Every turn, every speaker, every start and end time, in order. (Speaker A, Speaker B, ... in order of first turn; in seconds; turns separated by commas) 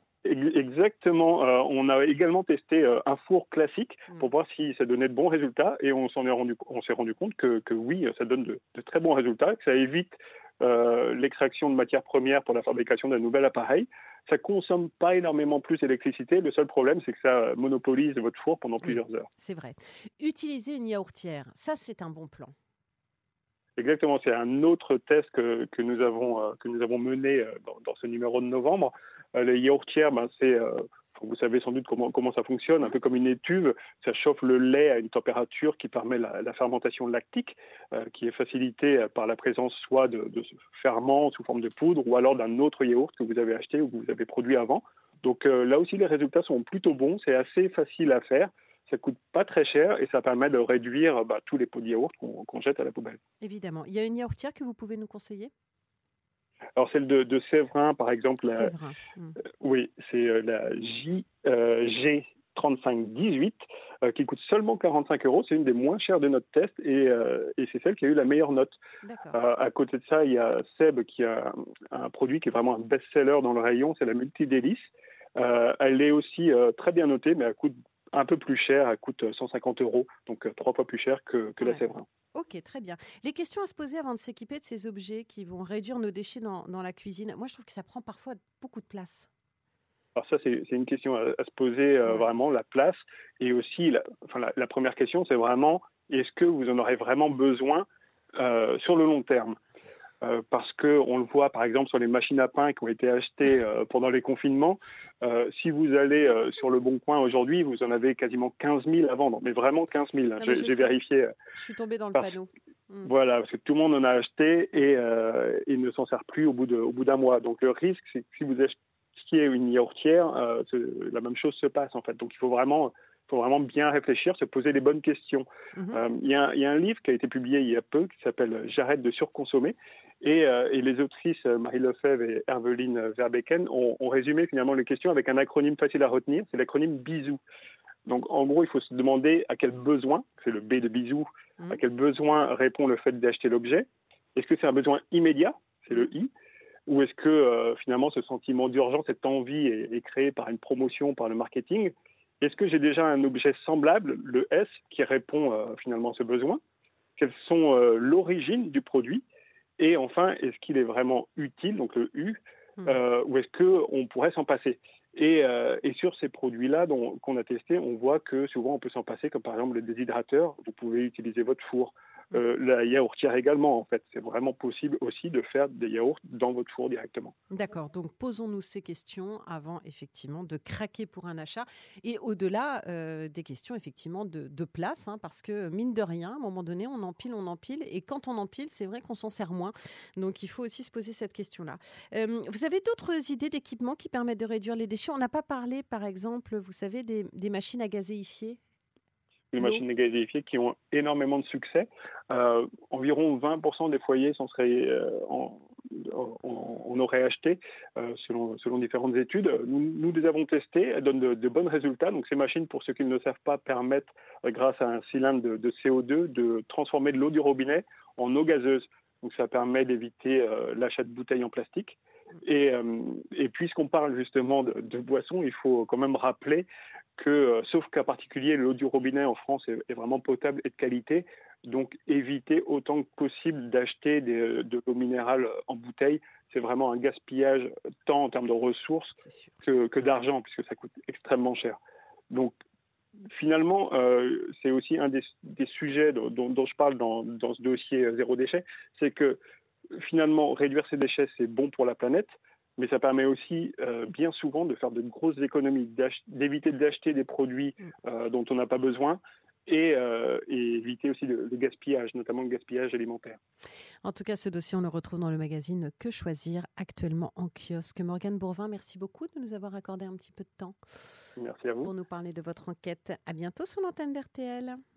Speaker A: 0.2-19.3, Speaker B: 18.8-22.5, Speaker A: 23.8-53.2, Speaker B: 53.4-55.5, Speaker A: 56.8-58.7, Speaker B: 58.5-59.4, Speaker A: 59.6-68.8, Speaker B: 69.0-69.4, Speaker A: 69.3-82.0, Speaker B: 82.3-89.3, Speaker A: 90.2-99.6, Speaker A: 100.2-111.3, Speaker B: 110.4-111.0, Speaker B: 111.5-113.1, Speaker A: 113.0-137.4, Speaker B: 125.8-126.0, Speaker A: 138.1-146.3, Speaker A: 146.9-156.6, Speaker A: 157.2-159.2, Speaker A: 159.8-177.3, Speaker B: 177.5-198.6, Speaker A: 199.5-226.7, Speaker A: 227.2-241.8, Speaker B: 239.2-239.5, Speaker A: 243.3-249.4, Speaker A: 249.9-263.4, Speaker B: 264.0-270.8, Speaker A: 271.4-271.9, Speaker B: 271.8-274.8